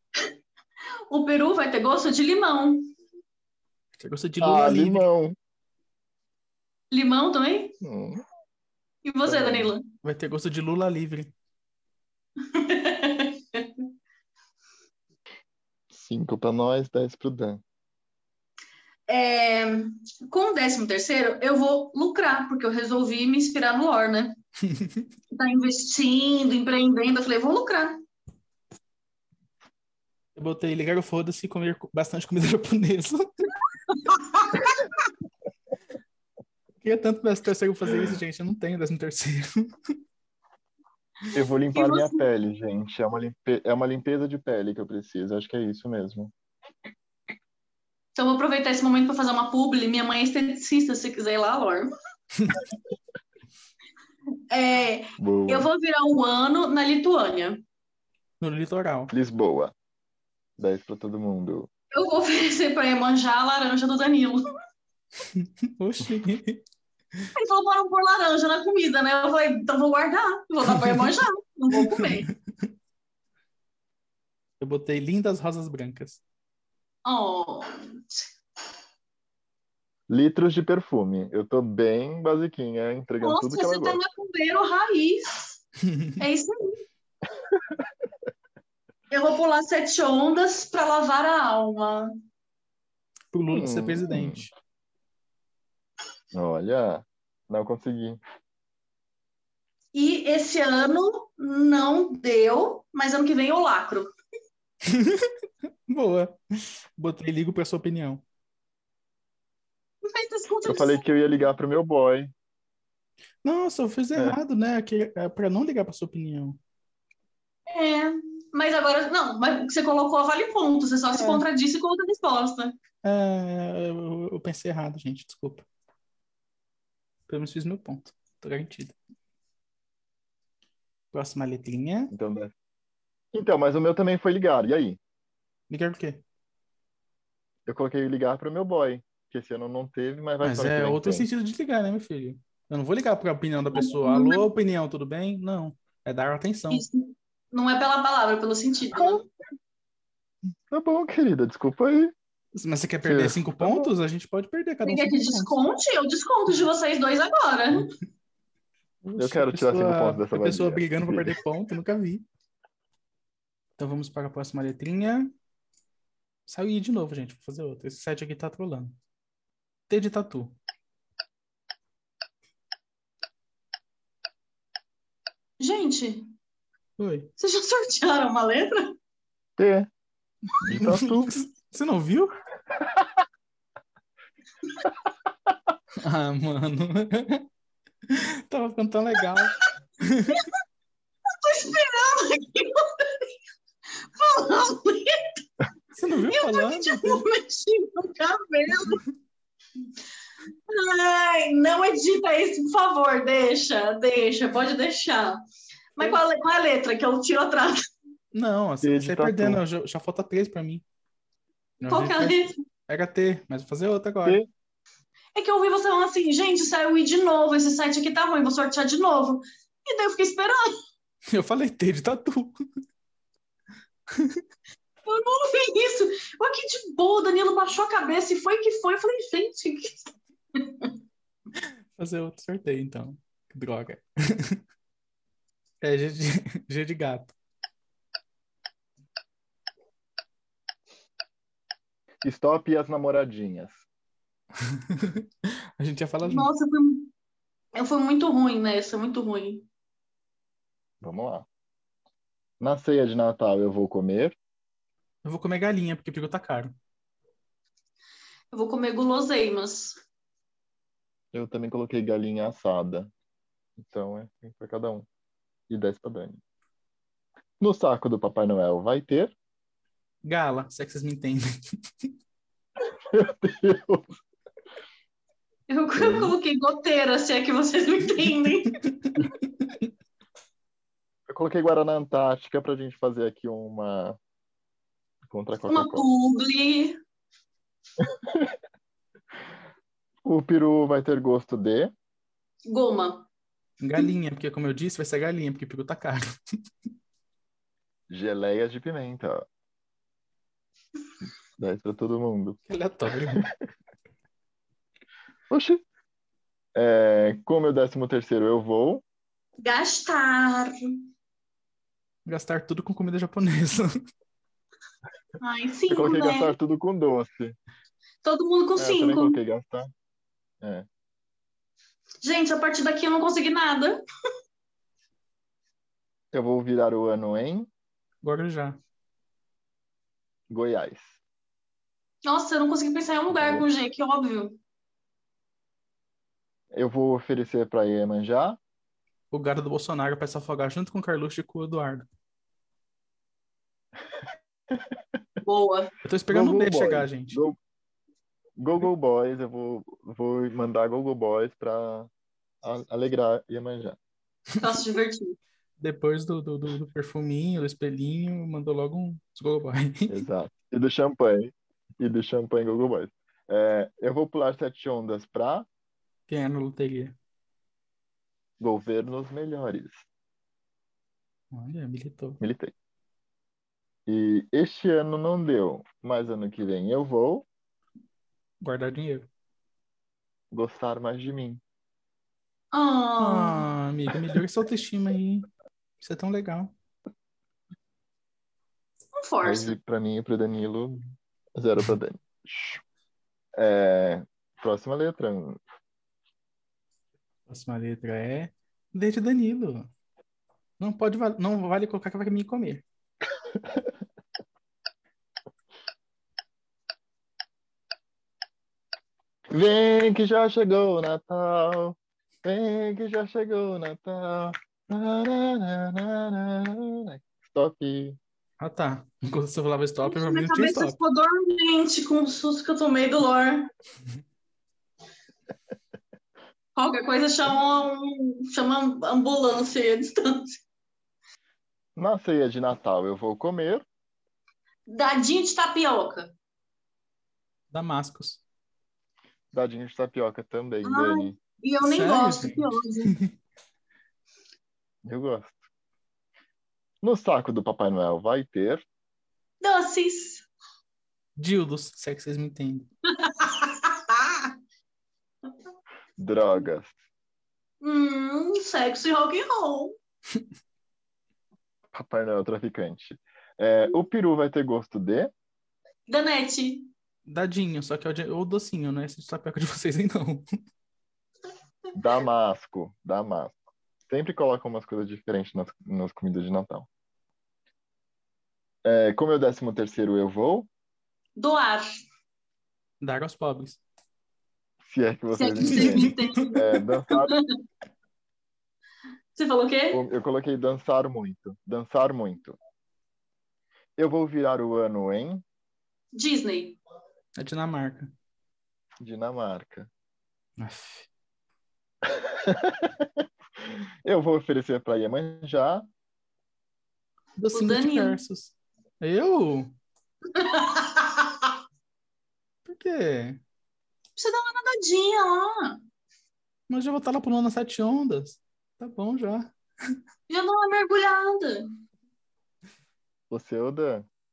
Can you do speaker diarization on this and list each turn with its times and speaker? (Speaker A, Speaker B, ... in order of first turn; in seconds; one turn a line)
Speaker A: 1.1-2.9
Speaker B: 4.0-5.1
Speaker C: 4.4-5.3
Speaker A: 6.9-7.7
Speaker C: 7.8-8.2
Speaker A: 9.0-9.8
Speaker C: 9.2-9.7
Speaker B: 10.0-11.3
Speaker A: 12.5-13.8
Speaker C: 15.9-17.6
Speaker A: 19.1-24.4
Speaker B: 24.6-25.1
Speaker A: 25.3-28.0
Speaker B: 30.4-33.3
Speaker A: 33.9-34.9
Speaker B: 36.8-39.7
Speaker A: 41.3-42.2
Speaker C: 41.3-46.3
Speaker A: 48.1-51.9
Speaker A: 54.5-57.6
Speaker C: 55.2-55.7
Speaker B: 58.4-59.1
Speaker C: 59.1-59.7
Speaker C: 60.6-61.7
Speaker A: 61.9-64.4
Speaker B: 65.3-66.6
Speaker A: 67.3-72.3
Speaker B: 70.7-71.1
Speaker B: 71.7-72.7
Speaker B: 74.6-76.2
Speaker A: 77.0-78.3
Speaker C: 80.1-84.0
Speaker A: 83.2-85.6
Speaker B: 85.8-86.2
Speaker A: 86.2-86.8
Speaker A: 89.1-92.1
Speaker B: 93.3-94.5
Speaker C: 93.5-94.4
Speaker C: 96.3-98.2
Speaker A: 99.9-104.1
Speaker B: 104.8-105.3
Speaker B: 105.9-108.2
Speaker A: 110.0-111.0
Speaker C: 110.6-112.3
Speaker B: 113.4-116.6
Speaker A: 117.7-122.8
Speaker B: 121.1-121.4
Speaker B: 123.0-125.6
Speaker B: 127.3-128.9
Speaker B: 131.1-132.1
Speaker C: 132.1-132.5
Speaker C: 133.3-135.0
Speaker B: 135.7-136.2
Speaker C: 137.7-141.3
Speaker B: 140.4-146.8
Speaker A: 143.7-144.4
Speaker A: 146.7-149.2
Speaker C: 148.9-149.2
Speaker C: 150.7-152.1
Speaker B: 152.5-155.6
Speaker C: 153.0-153.9
Speaker A: 154.8-157.9
Speaker B: 159.0-162.2
Speaker C: 159.2-161.4
Speaker B: 163.8-165.3
Speaker B: 166.5-168.9
Speaker B: 169.9-170.6
Speaker A: 175.6-176.3
Speaker B: 177.0-177.3
Speaker A: 177.4-178.9
Speaker C: 179.6-179.9
Speaker C: 180.6-181.4
Speaker B: 180.7-182.3
Speaker B: 186.0-187.4
Speaker B: 188.1-190.4
Speaker A: 191.3-193.3
Speaker A: 194.1-195.4
Speaker B: 195.9-197.2
Speaker A: 196.3-199.0
Speaker A: 200.7-205.4
Speaker A: 205.9-207.9
Speaker B: 208.3-210.8
Speaker C: 208.8-209.6
Speaker B: 211.8-214.4
Speaker A: 211.9-212.6
Speaker A: 215.3-220.7
Speaker B: 221.3-222.5
Speaker B: 224.1-224.4
Speaker A: 225.0-230.0
Speaker A: 230.6-230.9
Speaker B: 232.0-234.6
Speaker B: 235.8-237.3
Speaker C: 242.2-243.8
Speaker B: 244.7-245.3
Speaker B: 245.8-246.5
Speaker A: 246.2-247.1
Speaker A: 247.7-249.7
Speaker C: 251.0-251.4
Speaker C: 252.6-254.3
Speaker B: 255.2-256.7
Speaker A: 258.5-260.0
Speaker C: 261.3-263.1
Speaker C: 263.8-265.1
Speaker C: 265.7-266.4
Speaker C: 267.6-269.3
Speaker B: 270.2-272.1
Speaker C: 273.1-274.1
Speaker A: 275.7-278.7
Speaker C: 275.9-276.4
Speaker B: 278.1-279.7
Speaker C: 281.3-284.2
Speaker C: 285.2-286.0
Speaker A: 285.7-287.0
Speaker C: 288.0-288.5
Speaker C: 290.2-291.9
Speaker A: 292.7-293.3
Speaker B: 293.8-296.3
Speaker C: 298.1-299.4
Speaker C: 301.6-303.5
Speaker B: 302.7-303.4
Speaker C: 305.5-305.8
Speaker C: 306.7-309.0
Speaker A: 309.6-310.9
Speaker B: 312.2-314.0
Speaker A: 315.4-316.5
Speaker C: 315.9-317.6
Speaker A: 318.2-319.4
Speaker C: 318.8-319.9
Speaker C: 320.6-320.9
Speaker A: 322.2-324.0
Speaker C: 326.3-327.7
Speaker B: 328.2-328.8
Speaker C: 330.5-331.1
Speaker A: 332.2-334.6
Speaker C: 333.3-333.6
Speaker C: 336.7-338.6
Speaker B: 339.3-342.1
Speaker A: 345.4-345.9
Speaker B: 346.0-347.4
Speaker C: 346.3-347.6
Speaker C: 348.6-352.1
Speaker C: 352.6-354.0
Speaker A: 354.6-355.4
Speaker B: 355.8-360.2
Speaker C: 360.1-365.7
Speaker B: 366.3-367.1
Speaker C: 368.6-370.1
Speaker B: 371.5-372.4
Speaker C: 372.4-372.7
Speaker C: 374.1-377.4
Speaker B: 378.6-379.3
Speaker C: 380.5-381.6
Speaker A: 382.7-383.6
Speaker B: 383.2-385.5
Speaker B: 386.0-386.7
Speaker A: 389.2-389.7
Speaker C: 389.4-392.8
Speaker C: 393.6-395.6
Speaker B: 397.5-399.9
Speaker B: 400.8-402.8
Speaker C: 409.5-418.2
Speaker B: 418.6-421.0
Speaker A: 420.0-423.7
Speaker A: 426.8-430.6
Speaker C: 432.0-433.8
Speaker A: 434.9-436.3
Speaker B: 437.7-438.4
Speaker C: 439.5-441.4
Speaker A: 440.8-443.1
Speaker B: 441.8-443.3
Speaker C: 445.0-445.6
Speaker C: 447.0-448.8
Speaker A: 449.6-450.5
Speaker B: 451.4-452.9
Speaker A: 453.1-454.5
Speaker C: 456.2-456.9
Speaker A: 457.8-459.9
Speaker C: 461.9-465.3
Speaker A: 466.1-466.9
Speaker B: 467.3-470.4
Speaker C: 471.9-473.6
Speaker C: 474.1-476.9
Speaker C: 478.8-480.7
Speaker A: 481.4-481.9
Speaker B: 483.0-483.8
Speaker C: 484.8-487.4
Speaker A: 485.3-487.4
Speaker B: 485.6-486.4
Speaker A: 489.4-490.0
Speaker C: 489.9-492.6
Speaker C: 494.0-495.4
Speaker A: 496.1-496.8
Speaker B: 497.4-498.1
Speaker C: 499.0-499.9
Speaker B: 500.6-501.1
Speaker C: 502.0-505.9
Speaker B: 507.4-509.8
Speaker A: 507.5-508.2
Speaker A: 510.3-511.5
Speaker B: 512.6-513.4
Speaker A: 514.1-515.8
Speaker B: 516.7-519.5
Speaker A: 520.3-521.7
Speaker C: 523.3-524.1